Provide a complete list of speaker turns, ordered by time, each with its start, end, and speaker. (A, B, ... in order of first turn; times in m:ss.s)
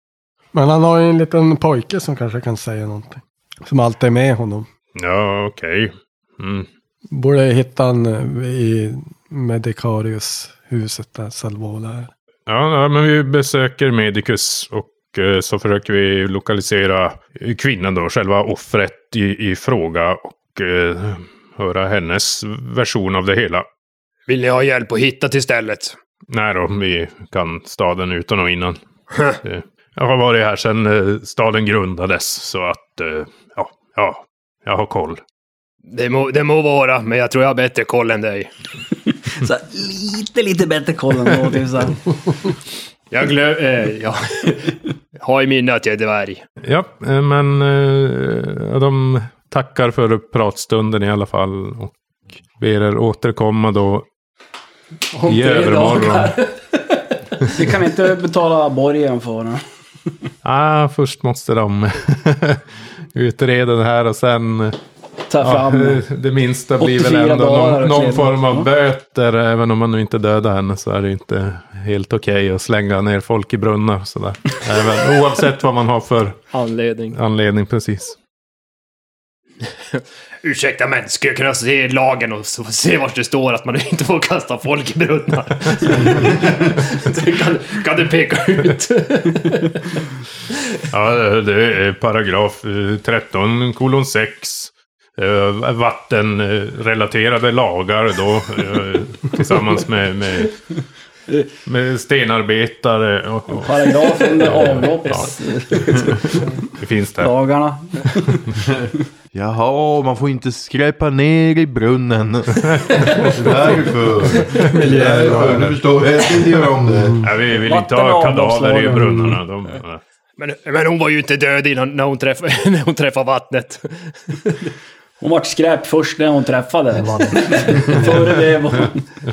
0:00.5-0:04.7 A
0:05.0-0:06.7 B
0:07.1-0:12.1 A
0:12.5-0:23.7 B
0:24.3-0:26.0 C
0:26.3-0:28.8 B
0:29.1-0:29.4 C
0:29.4-0:35.2 B
0:35.9-0:38.5 C
0:39.1-0:42.1 D
0:43.1-0:46.4 C
0:46.6-0:52.0 B
0:52.6-0:54.1 B
0:55.1-0:57.1 C
0:55.3-0:56.4 B
0:57.6-0:59.6 D
1:00.4-1:02.6 B
1:03.1-1:04.8 B
1:05.3-1:06.0 D
1:05.4-1:16.4 B
1:06.8-1:08.7 D
1:16.5-1:17.2 C
1:17.1-1:18.2 B
1:19.9-1:29.9 C
1:30.9-1:40.5 B
1:41.7-1:46.1 B
1:43.5-1:46.5 D
1:46.8-1:47.3 B
1:47.2-1:48.5 D
1:49.3-1:57.2 E
1:52.6-1:53.0 B
1:54.6-1:55.8 A
1:57.0-1:57.2 A
1:57.2-2:00.0 B
1:57.6-1:59.2 D
2:00.4-2:04.6 C
2:05.2-2:09.1 D